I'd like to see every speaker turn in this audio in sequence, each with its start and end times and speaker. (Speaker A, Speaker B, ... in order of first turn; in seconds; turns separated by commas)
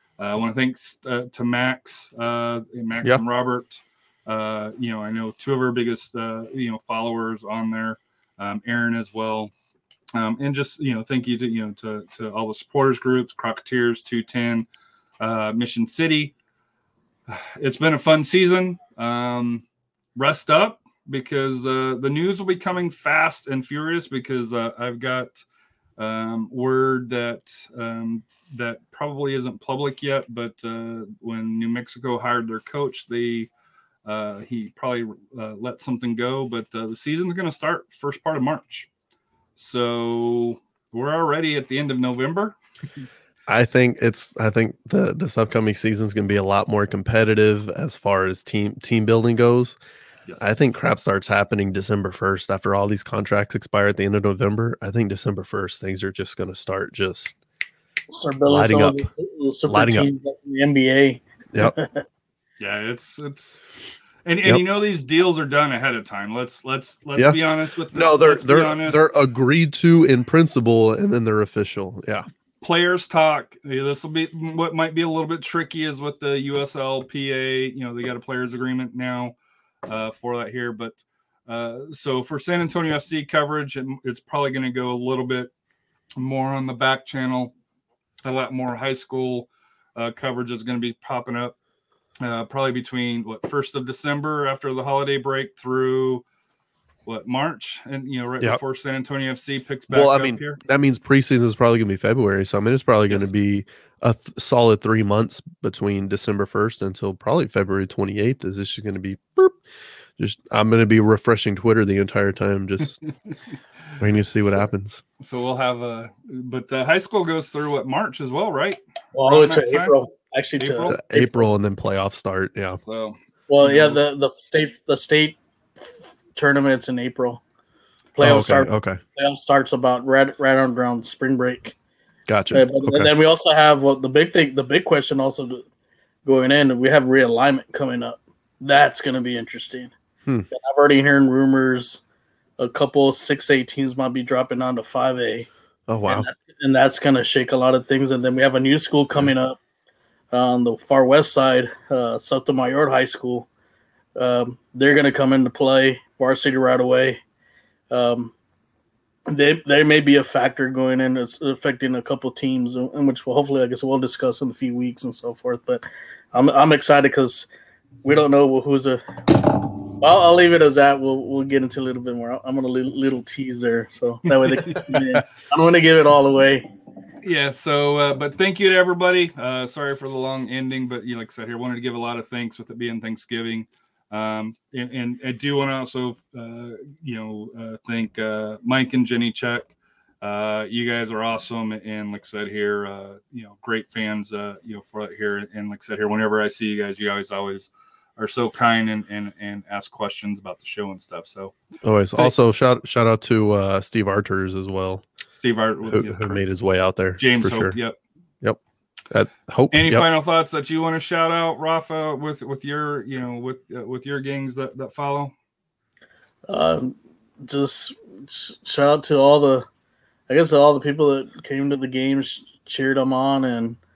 Speaker A: 0.2-9.5, Speaker A: 10.1-14.7, Speaker A: 15.2-16.3, Speaker A: 17.3-19.6, Speaker A: 20.1-25.4, Speaker A: 26.0-33.5, Speaker A: 34.0-38.9, Speaker A: 39.6-42.5, Speaker B: 43.5-49.8, Speaker A: 50.3-50.6, Speaker B: 50.4-57.4, Speaker C: 58.1-62.0, Speaker B: 58.5-59.1, Speaker B: 59.7-60.1, Speaker A: 62.6-69.0, Speaker B: 67.9-72.3, Speaker A: 72.6-79.3, Speaker A: 79.9-85.5, Speaker A: 86.2-87.5, Speaker A: 88.2-91.5, Speaker A: 92.2-96.2, Speaker A: 97.1-100.6, Speaker B: 99.9-109.6, Speaker B: 110.2-113.0, Speaker B: 114.0-115.0, Speaker A: 115.2-119.9, Speaker C: 119.1-121.3, Speaker A: 120.6-121.0, Speaker B: 120.9-122.8, Speaker A: 122.9-124.0, Speaker C: 123.5-127.4, Speaker C: 128.2-131.8, Speaker B: 128.2-129.0, Speaker B: 132.3-133.1, Speaker C: 132.5-135.7, Speaker C: 136.2-139.9, Speaker C: 140.5-142.0, Speaker C: 142.6-145.5, Speaker B: 145.9-146.3, Speaker C: 146.1-149.6, Speaker C: 150.3-153.5, Speaker C: 154.2-157.2, Speaker C: 157.9-158.3, Speaker C: 159.3-167.5, Speaker C: 168.0-176.7, Speaker A: 174.3-174.9, Speaker A: 177.2-189.7, Speaker A: 190.2-201.5, Speaker B: 201.8-205.1, Speaker A: 205.3-206.5, Speaker B: 205.9-207.8, Speaker A: 207.2-208.0, Speaker B: 208.4-210.1, Speaker A: 209.7-215.3, Speaker C: 216.5-219.7, Speaker C: 220.3-223.8